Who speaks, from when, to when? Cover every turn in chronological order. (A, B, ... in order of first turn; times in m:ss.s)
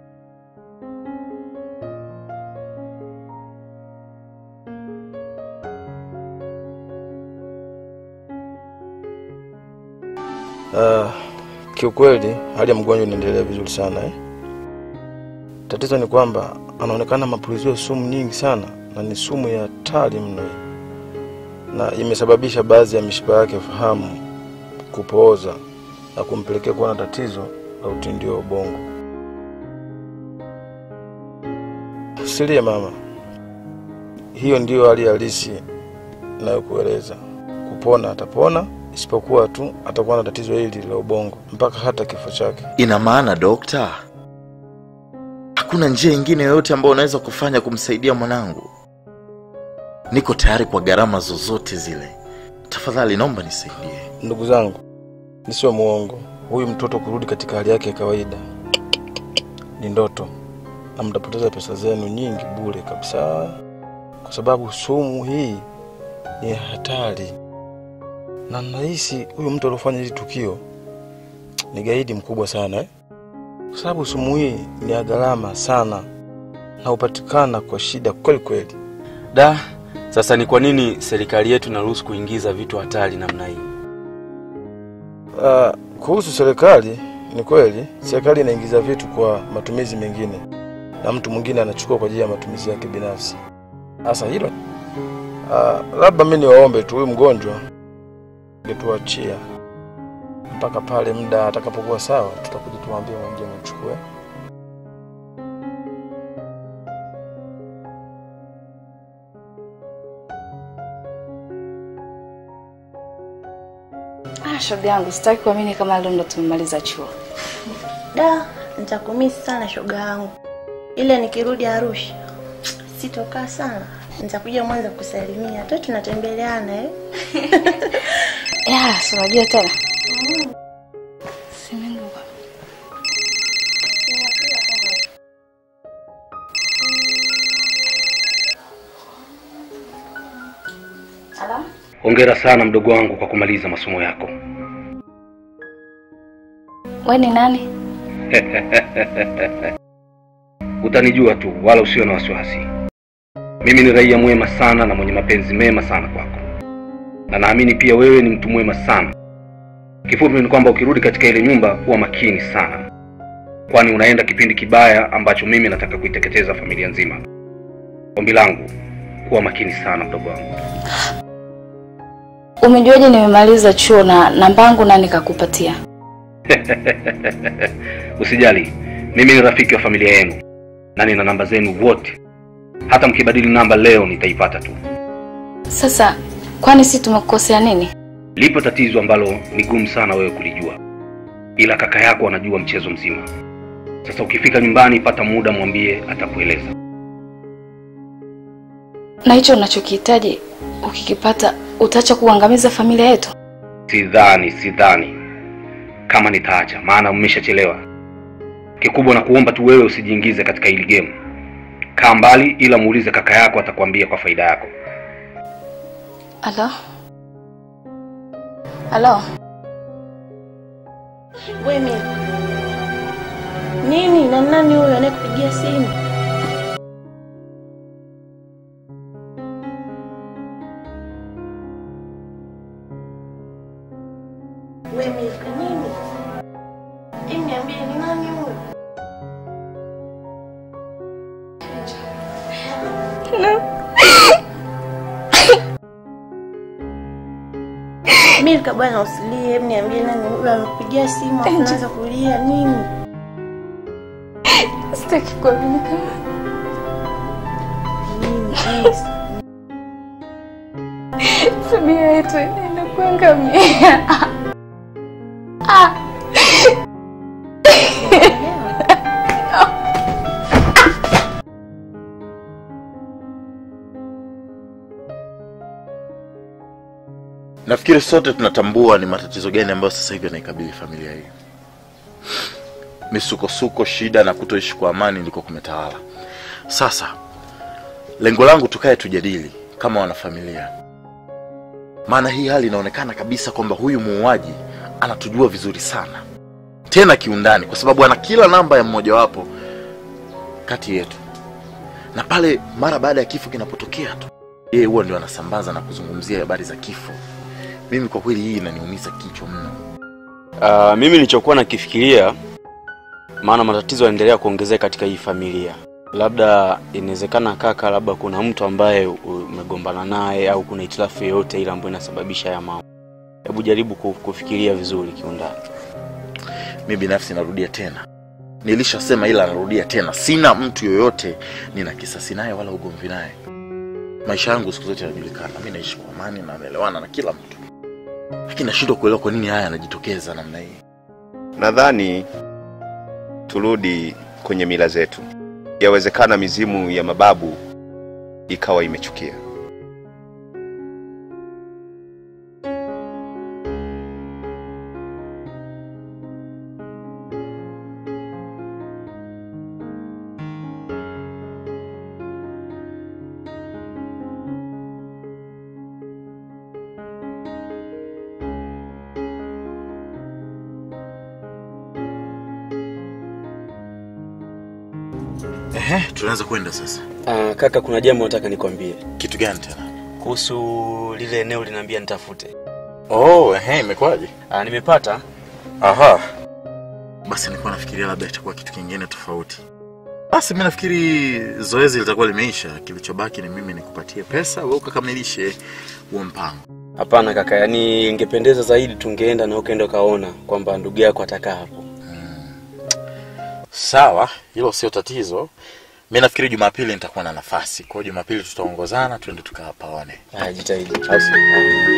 0:10.7-0:11.2 A
0:11.7-0:14.2 A
0:15.7-0:20.6 A
0:21.7-0:24.2 A
0:24.9-0:25.6 A
0:26.1-0:28.9 A
0:32.2-0:33.0 A
0:34.3-0:35.6 A
0:36.4-0:42.7 A
0:42.8-0:44.0 B
0:45.6-0:48.7 B
0:50.1-0:52.1 B
0:52.7-0:54.1 B
0:54.2-0:54.8 A
0:55.4-0:58.4 A
0:59.8-1:00.3 A
1:01.0-1:03.5 A
1:04.2-1:05.6 A
1:06.4-1:07.3 A
1:08.5-1:10.6 A
1:11.7-1:12.9 A
1:13.7-1:16.1 A
1:16.8-1:18.7 A
1:19.3-1:19.6 C
1:20.1-1:23.6 C
1:25.3-1:30.4 A
1:31.0-1:33.4 A
1:34.0-1:34.5 A
1:35.5-1:37.6 A
1:38.6-1:39.4 A
1:40.5-1:44.0 A
1:54.4-1:57.1 D
1:58.1-2:00.3 E
2:01.0-2:02.2 E
2:03.0-2:06.9 E
2:08.6-2:09.7 D
2:10.1-2:10.4 E
2:11.5-2:12.2 D
2:14.1-2:14.8 E
2:21.4-2:21.6 D
2:22.0-2:24.3 F
2:27.0-2:27.6 D
2:28.3-2:29.5 F
2:30.8-2:32.6 F
2:33.6-2:36.4 F
2:37.3-2:39.1 F
2:40.1-2:42.8 F
2:43.7-2:47.2 F
2:48.2-2:48.7 F
2:49.2-2:50.5 F
2:52.6-2:55.8 D
2:56.5-2:57.6 F
2:58.2-3:00.4 F
3:01.0-3:02.2 F
3:02.9-3:04.7 F
3:05.7-3:07.9 D
3:08.4-3:10.8 F
3:11.6-3:13.2 F
3:14.0-3:16.7 F
3:19.2-3:23.3 D
3:23.9-3:25.1 F
3:26.1-3:27.8 F
3:28.8-3:31.1 F
3:32.0-3:34.7 F
3:36.4-3:36.7 D
3:38.9-3:39.2 D
3:41.6-3:42.0 E
3:43.8-3:45.9 E
3:54.9-3:56.0 E
3:57.3-3:58.6 E
4:03.3-4:04.1 D
4:08.4-4:12.9 E
4:14.5-4:16.1 D
4:18.1-4:19.0 E
4:21.2-4:24.3 D
4:25.7-4:26.7 D
4:28.2-4:28.7 E
4:37.6-4:41.3 B
4:43.1-4:46.0 B
4:46.7-4:47.2 B
4:48.2-4:50.7 B
4:52.1-4:56.2 B
4:56.9-4:59.5 B
5:00.6-5:01.2 B
5:02.1-5:07.2 B
5:07.9-5:09.8 B
5:10.6-5:12.4 C
5:13.4-5:22.8 C
5:23.4-5:25.6 C
5:26.8-5:28.0 B
5:28.6-5:33.4 B
5:34.2-5:37.6 B
5:38.5-5:40.8 B
5:41.6-5:42.2 G
5:43.5-5:45.2 G
5:45.8-5:47.6 G
5:48.5-5:49.4 G
6:15.7-6:17.0 B
6:17.2-6:19.0 C
6:19.2-6:19.9 B
6:20.2-6:22.5 C
6:23.1-6:24.3 B
6:24.5-6:25.2 C
6:25.8-6:26.2 B
6:27.2-6:29.6 B
6:30.3-6:35.6 B
6:36.1-6:36.6 B
6:37.0-6:41.9 C
6:42.0-6:42.5 B
6:43.7-6:45.5 B
6:46.1-6:50.2 B
6:50.3-6:51.7 C